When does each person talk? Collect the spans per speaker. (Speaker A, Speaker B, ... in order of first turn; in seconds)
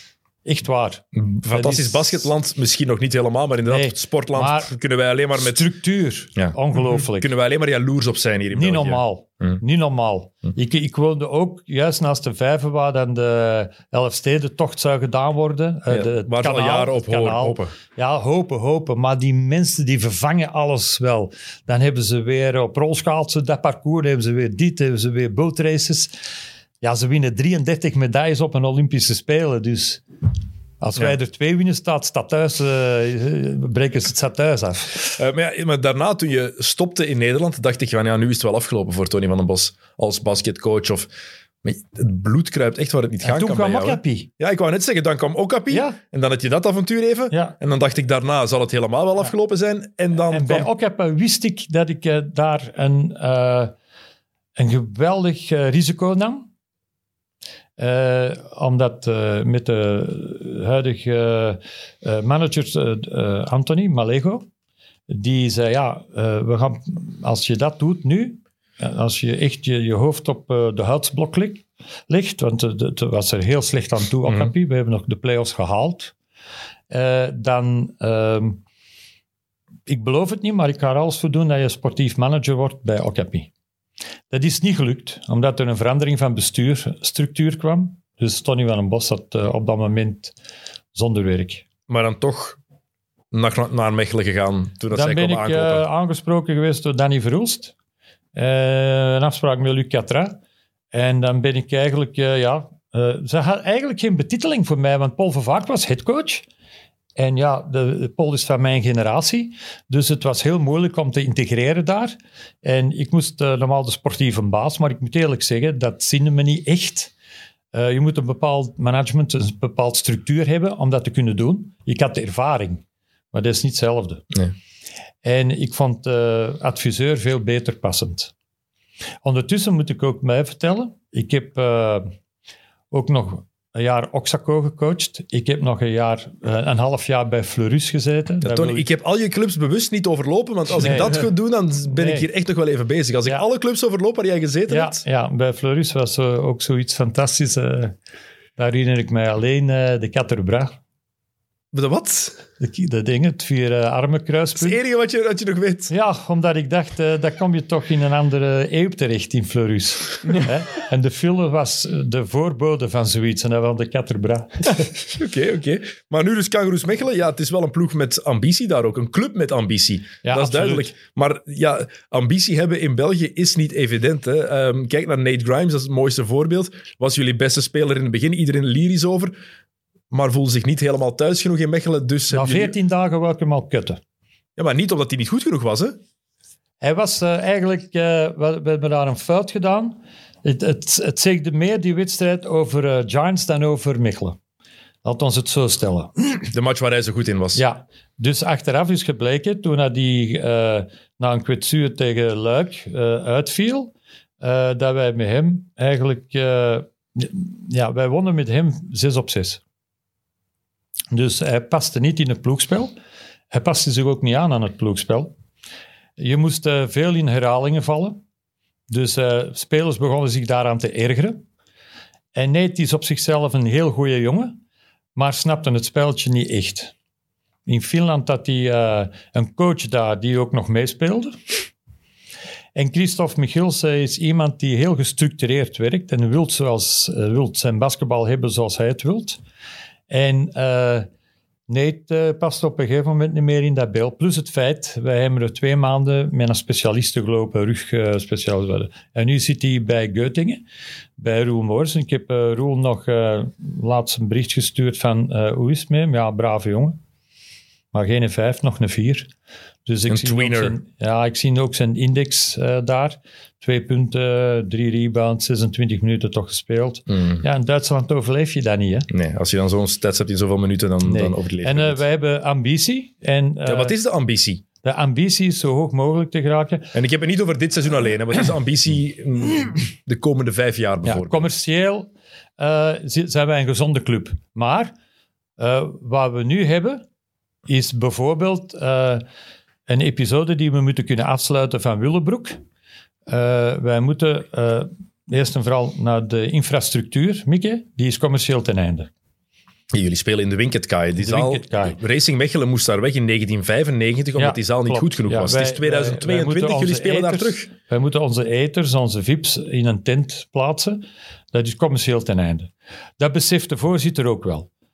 Speaker A: 0.4-2.2, 3.7-4.7, 5.4-7.3, 8.5-26.1, 26.8-30.0, 30.8-35.2, 43.2-44.3, 45.7-46.0, 47.3-47.5, 50.2-53.7, 54.5-56.5, 57.8-64.5, 65.1-76.1, 76.9-78.6, 79.9-83.5, 84.3-90.3, 90.9-91.6, 94.9-97.7, 98.3-100.4, 100.9-106.5, 107.2-117.1, 117.7-124.3, 125.2-128.3, 129.2-132.1, 132.9-138.8, 140.7-141.2, 141.9-142.3, 144.7-147.9, 148.6-150.8, 152.6-154.8, 155.9-164.8, 170.2-170.9, 182.3-184.0, 186.8-194.4, 195.0-196.5, 197.5-209.6, 211.1-212.9, 213.5-215.3, 216.2-218.2, 218.9-221.4, 222.3-224.6, 225.2-226.9, 227.7-231.6, 232.7-239.4, 240.1-241.1, 241.7-250.6, 251.2-257.0, 257.9-259.3, 259.9-269.1, 271.0-273.9, 274.8-276.9, 281.0-284.9, 285.6-287.0, 287.7-289.2, 289.9-292.6, 293.3-299.1, 301.2-302.0, 304.4-314.7
Speaker B: 1.1-5.7, 6.3-9.6, 15.9-17.7, 35.1-41.1, 41.6-50.7, 74.2-74.5, 91.9-92.6, 93.3-95.8, 138.4-145.0, 151.7-152.4, 154.6-155.9, 165.1-179.3, 180.1-182.7, 184.6-186.0, 196.5-197.6, 260.1-260.8, 267.1-267.4, 269.1-272.0, 273.6-274.6, 276.9-281.5, 299.9-307.7